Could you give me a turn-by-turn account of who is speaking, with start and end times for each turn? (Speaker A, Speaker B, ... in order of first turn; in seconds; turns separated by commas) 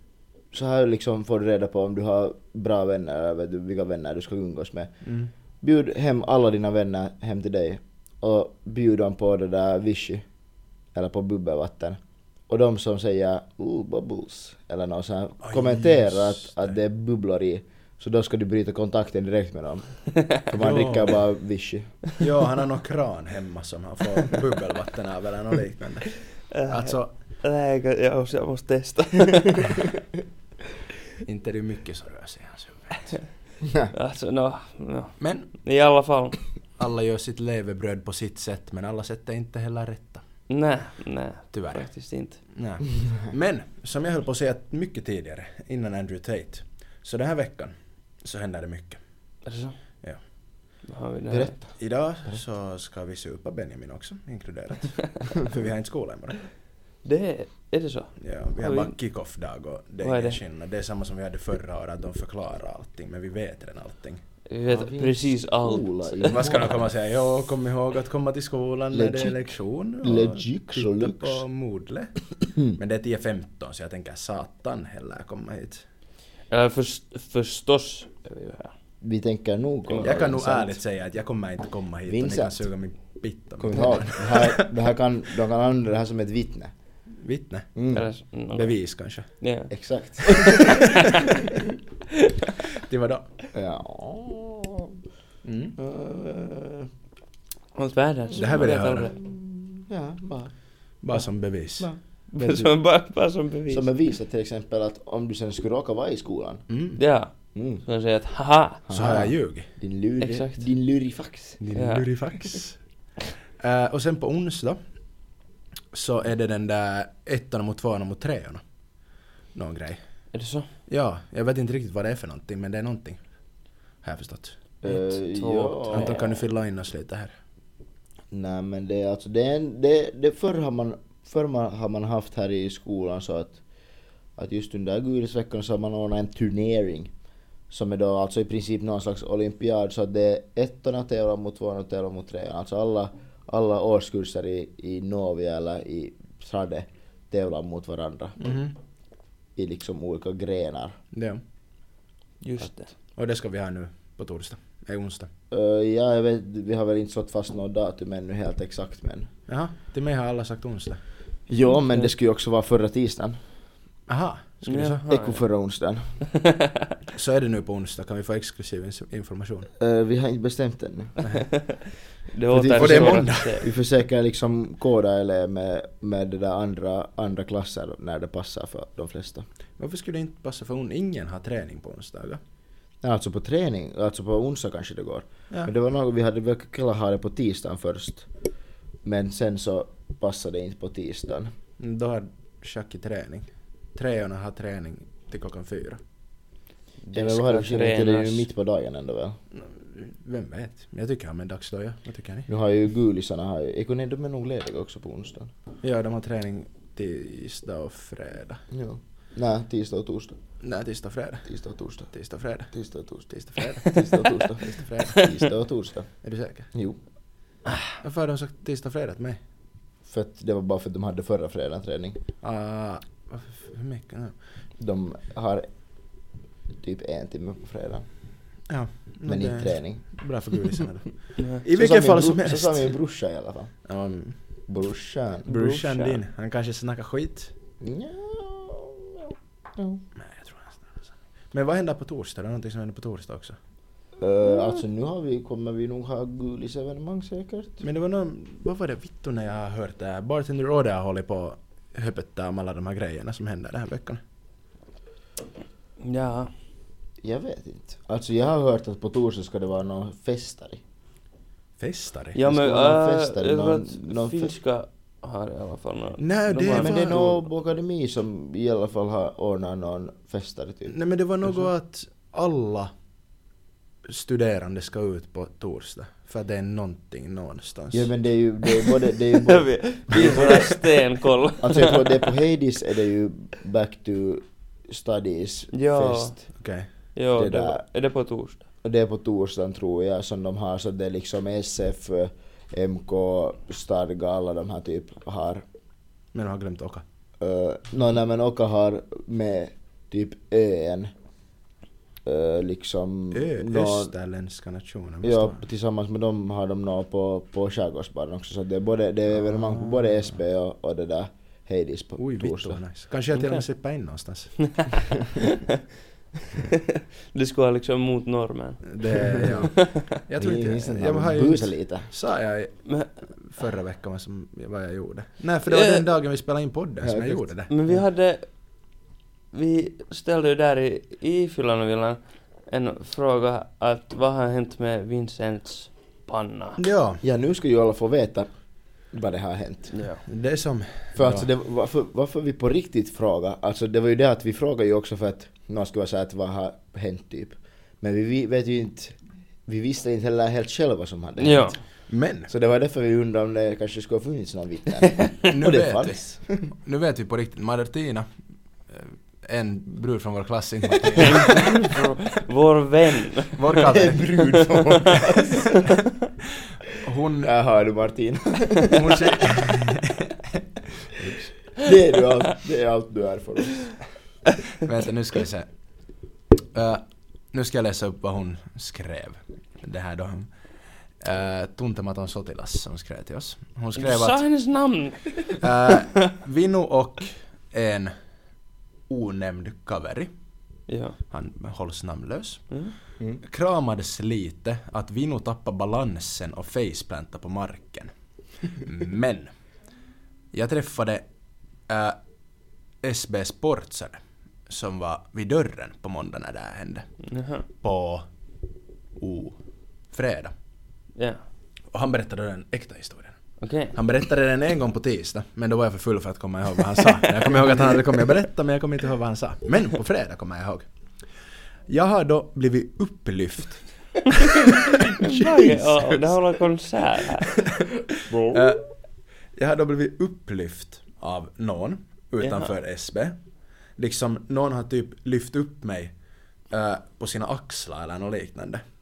Speaker A: 0.5-4.9, Speaker B: 5.0-5.3, Speaker A: 5.6-10.2, Speaker A: 10.9-19.9, Speaker B: 15.4-16.8, Speaker A: 20.5-22.0, Speaker B: 20.5-21.2, Speaker B: 22.2-27.1, Speaker C: 26.5-29.8, Speaker B: 31.2-33.2, Speaker A: 33.6-33.9, Speaker C: 33.9-36.4, Speaker B: 35.2-35.5, Speaker B: 36.8-40.2, Speaker C: 40.5-42.4, Speaker B: 41.5-41.9, Speaker B: 42.5-49.0, Speaker C: 49.5-49.8, Speaker C: 50.9-51.5, Speaker A: 51.3-51.8, Speaker B: 51.8-56.4, Speaker C: 57.0-58.9, Speaker B: 58.2-64.2, Speaker C: 60.0-60.4, Speaker C: 64.5-66.6, Speaker A: 64.7-66.9, Speaker B: 66.3-75.8, Speaker A: 68.9-71.4, Speaker C: 76.5-78.7, Speaker A: 79.0-80.8, Speaker B: 80.0-84.7, Speaker A: 82.1-82.6, Speaker A: 83.6-86.7, Speaker B: 87.2-87.7, Speaker A: 87.8-88.1, Speaker C: 87.9-88.8, Speaker B: 88.5-89.3, Speaker C: 89.4-91.3, Speaker A: 89.7-90.8, Speaker C: 92.1-92.5, Speaker B: 92.7-93.3, Speaker A: 93.5-95.0, Speaker B: 95.4-95.8, Speaker A: 95.8-96.9, Speaker C: 97.8-99.1, Speaker B: 98.3-99.1, Speaker A: 99.1-100.5, Speaker B: 101.0-102.7, Speaker C: 102.3-103.9, Speaker A: 103.7-106.6, Speaker B: 106.7-107.0, Speaker C: 107.0-107.3, Speaker A: 107.5-107.8, Speaker C: 107.8-108.8, Speaker A: 108.9-111.6, Speaker B: 108.9-109.7, Speaker C: 110.2-110.6, Speaker B: 111.6-112.8, Speaker C: 111.7-112.1, Speaker B: 113.6-114.8, Speaker B: 115.9-118.6, Speaker B: 119.5-120.0, Speaker C: 120.3-120.7, Speaker B: 120.9-123.2, Speaker B: 124.0-124.6, Speaker A: 124.8-126.4, Speaker C: 124.9-126.3, Speaker B: 125.9-127.3, Speaker A: 128.3-133.6, Speaker A: 134.4-137.1, Speaker A: 137.7-148.4, Speaker B: 148.4-148.8, Speaker A: 149.6-151.0, Speaker B: 151.1-151.4, Speaker C: 152.4-152.9, Speaker B: 153.2-155.3, Speaker A: 155.5-159.3, Speaker B: 159.5-161.0, Speaker A: 161.5-163.4, Speaker B: 164.1-165.1, Speaker C: 164.6-165.4, Speaker A: 165.1-166.0, Speaker C: 166.3-166.9, Speaker B: 167.1-169.7, Speaker A: 169.8-171.1, Speaker C: 171.3-173.6, Speaker A: 172.5-179.4, Speaker B: 172.7-173.7, Speaker B: 179.8-182.4, Speaker A: 183.0-188.3, Speaker A: 189.1-191.5, Speaker B: 191.8-196.0, Speaker C: 197.0-198.5, Speaker A: 197.1-199.4, Speaker B: 199.5-202.5, Speaker A: 202.5-205.5, Speaker B: 205.8-208.6, Speaker A: 208.7-210.4, Speaker B: 210.6-211.5, Speaker A: 211.5-212.1, Speaker B: 212.1-212.8, Speaker A: 212.7-213.3, Speaker B: 213.3-215.3, Speaker A: 213.8-216.1, Speaker B: 216.2-216.7, Speaker A: 216.7-217.0, Speaker B: 218.0-219.4, Speaker A: 220.1-222.2, Speaker B: 222.4-224.3, Speaker A: 224.8-225.7, Speaker A: 226.8-228.1, Speaker B: 228.7-232.9, Speaker A: 229.3-230.0, Speaker A: 230.6-230.9, Speaker A: 231.7-233.7, Speaker B: 233.9-234.4, Speaker A: 234.7-235.8, Speaker B: 235.5-237.5, Speaker C: 235.5-236.2, Speaker A: 237.8-240.0, Speaker B: 240.2-243.6, Speaker A: 244.2-247.8, Speaker B: 247.8-254.2, Speaker C: 256.0-256.5, Speaker A: 257.2-260.8, Speaker B: 261.8-262.4, Speaker C: 262.4-267.4, Speaker A: 262.4-264.5, Speaker B: 266.2-267.3, Speaker A: 266.7-270.9, Speaker B: 270.9-272.9, Speaker B: 274.1-278.1, Speaker A: 277.9-280.8, Speaker C: 279.4-282.2, Speaker B: 280.1-280.6, Speaker A: 281.6-286.4, Speaker C: 285.7-286.4, Speaker B: 286.6-286.9, Speaker C: 287.1-288.6, Speaker A: 287.4-287.8, Speaker A: 288.8-295.6, Speaker B: 296.3-297.0, Speaker A: 297.4-301.1, Speaker A: 302.2-304.1, Speaker B: 303.3-305.6, Speaker A: 305.2-312.8, Speaker B: 309.4-310.3, Speaker B: 312.2-314.5, Speaker C: 313.4-313.6, Speaker C: 314.6-315.8, Speaker C: 316.5-320.1, Speaker B: 318.9-327.7, Speaker A: 320.4-322.1, Speaker C: 325.7-326.1, Speaker A: 327.0-327.5, Speaker C: 327.7-328.5, Speaker C: 329.5-336.8, Speaker B: 336.8-337.2, Speaker A: 337.2-338.5, Speaker A: 339.1-339.9, Speaker C: 339.9-340.2, Speaker B: 340.3-341.5, Speaker A: 341.1-351.8, Speaker C: 351.4-351.8, Speaker B: 352.1-352.5, Speaker A: 352.5-356.6, Speaker B: 355.5-358.3, Speaker B: 358.9-362.1, Speaker C: 361.2-363.8, Speaker B: 363.6-365.8, Speaker A: 363.9-365.8, Speaker C: 364.5-365.3, Speaker B: 366.9-367.5, Speaker A: 367.4-369.6, Speaker B: 368.9-371.5, Speaker A: 371.8-373.9, Speaker B: 374.8-375.7, Speaker B: 376.7-380.5, Speaker B: 381.2-384.4, Speaker C: 384.0-386.3, Speaker B: 385.5-388.1, Speaker B: 389.1-390.3, Speaker C: 390.9-391.1, Speaker B: 391.3-392.7, Speaker B: 393.4-398.1, Speaker B: 398.6-399.5, Speaker B: 400.5-401.2, Speaker B: 401.9-402.2, Speaker B: 403.0-407.1, Speaker C: 407.3-407.6, Speaker B: 407.8-408.2, Speaker B: 409.2-409.6, Speaker B: 410.1-410.5, Speaker C: 411.2-411.4, Speaker B: 411.9-413.4, Speaker C: 413.6-413.9, Speaker B: 413.9-420.9, Speaker B: 421.9-426.4, Speaker C: 424.9-427.5, Speaker B: 427.6-428.8, Speaker B: 429.6-433.4, Speaker C: 432.4-432.7, Speaker B: 434.0-436.1, Speaker B: 436.7-438.8